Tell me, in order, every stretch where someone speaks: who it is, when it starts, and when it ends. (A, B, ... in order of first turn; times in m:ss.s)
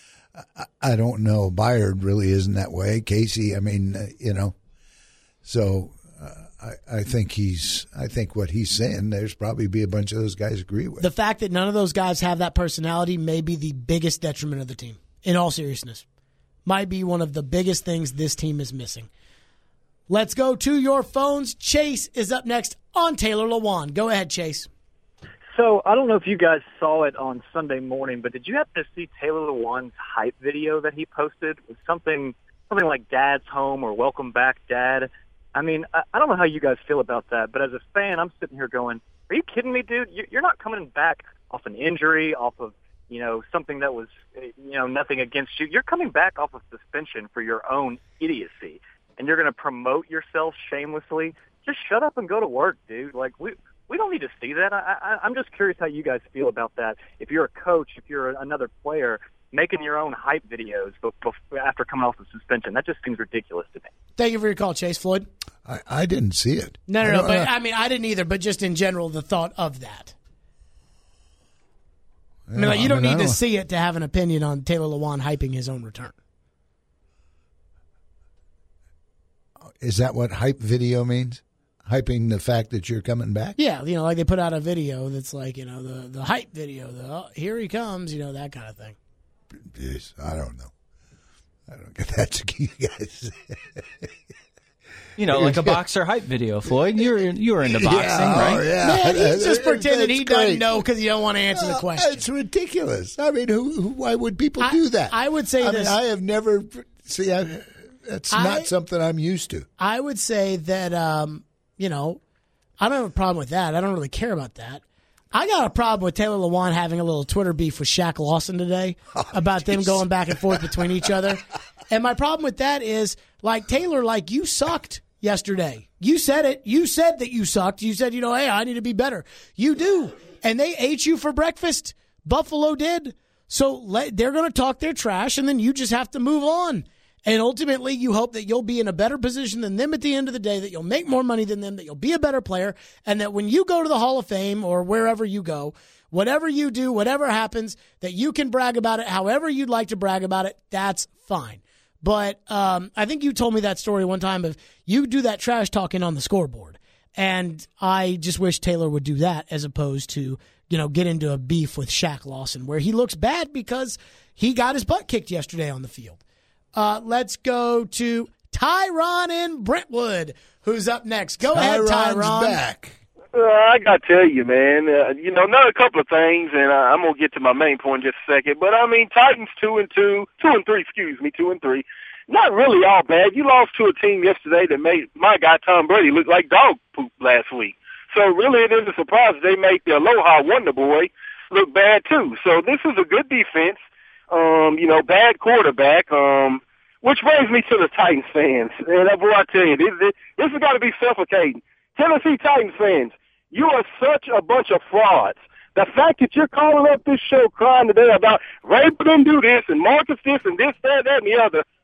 0:00.4-0:04.6 A
0:05.4-0:11.1 A
0:11.0-0:16.0 B
0:16.6-0:19.1 B
0:20.1-0:24.7 B
0:25.5-1:03.9 C
1:04.2-1:05.3 B
1:05.6-1:07.5 A
1:06.9-1:10.1 B
1:12.5-1:13.4 A
1:12.6-1:16.1 B
1:19.8-1:23.6 A
1:23.6-1:29.0 B
1:29.6-1:30.7 A
1:31.7-1:34.1 A
1:35.2-1:38.7 D
1:35.3-1:35.8 A
1:36.6-1:40.8 A
1:38.8-1:42.2 B
1:41.5-1:49.7 A
1:44.6-1:46.0 B
1:48.3-1:48.7 B
1:49.8-1:52.2 B
1:52.8-2:46.2 B
1:59.2-2:00.8 A
2:46.8-2:52.6 B
2:51.5-2:53.0 A
2:53.3-3:31.6 E